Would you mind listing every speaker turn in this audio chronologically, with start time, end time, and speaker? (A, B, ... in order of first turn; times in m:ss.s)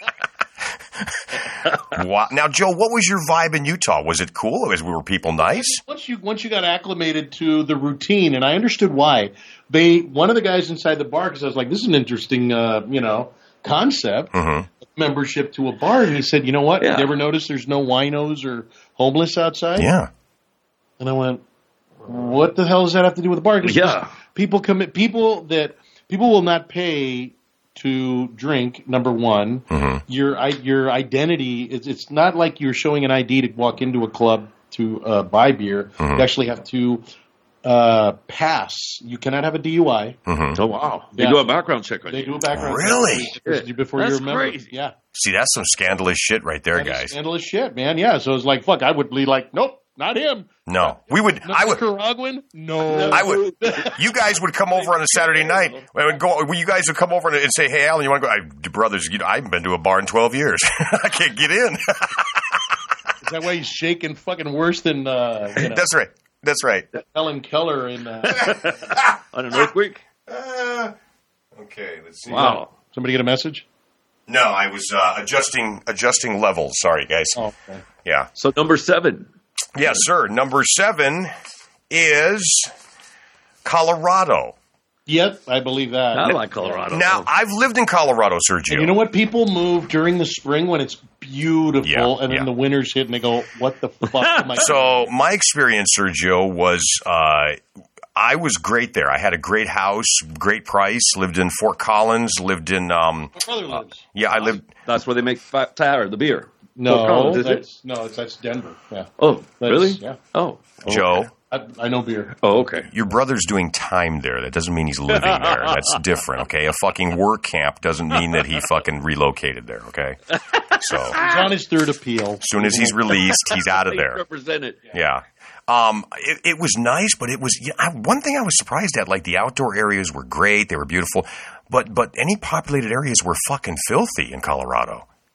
0:01.0-0:05.8 A
0:05.4-0:19.9 B
0:14.3-0:14.7 A
0:16.8-0:17.1 C
0:19.8-0:20.1 A
0:21.0-0:21.4 B
0:22.0-0:37.1 B
0:23.6-0:24.1 C
0:29.7-0:30.0 A
0:36.0-0:36.2 A
0:37.6-0:40.2 B
0:40.3-0:40.6 A
0:40.6-0:42.5 C
0:41.2-0:41.5 B
0:42.1-0:44.9 B
0:42.5-0:43.3 A
0:43.4-0:44.7 C
0:45.1-0:47.1 A
0:46.7-0:54.0 B
0:50.7-0:51.8 A
0:52.9-0:54.0 C
0:53.1-1:02.8 A
0:54.7-0:55.9 C
1:03.2-1:05.8 B
1:05.6-1:06.9 A
1:07.0-1:08.6 B
1:08.2-1:10.0 C
1:10.3-1:11.0 A
1:11.6-1:12.6 A
1:12.3-1:13.6 B
1:12.3-1:12.7 C
1:14.3-1:17.4 A
1:17.4-1:17.8 B
1:18.0-1:18.3 A
1:18.4-1:19.3 C
1:19.8-1:21.3 A
1:21.9-1:22.7 A
1:23.6-1:24.6 A
1:25.1-1:26.8 B
1:26.1-1:27.3 C
1:26.9-1:29.0 A
1:28.7-1:35.1 B
1:31.8-1:32.5 A
1:34.1-1:34.6 C
1:34.6-1:37.6 A
1:38.2-1:44.7 A
1:43.4-1:44.1 B
1:44.8-1:47.6 C
1:46.8-1:50.2 B
1:49.2-1:51.2 C
1:50.9-1:51.3 A
1:51.5-1:52.4 B
1:52.4-1:52.9 C
1:52.9-2:00.2 A
1:55.2-1:56.0 C
2:00.3-2:01.5 C
2:00.8-2:01.2 A
2:01.2-2:03.2 B
2:02.4-2:04.2 A
2:03.3-2:04.8 C
2:04.9-2:15.1 A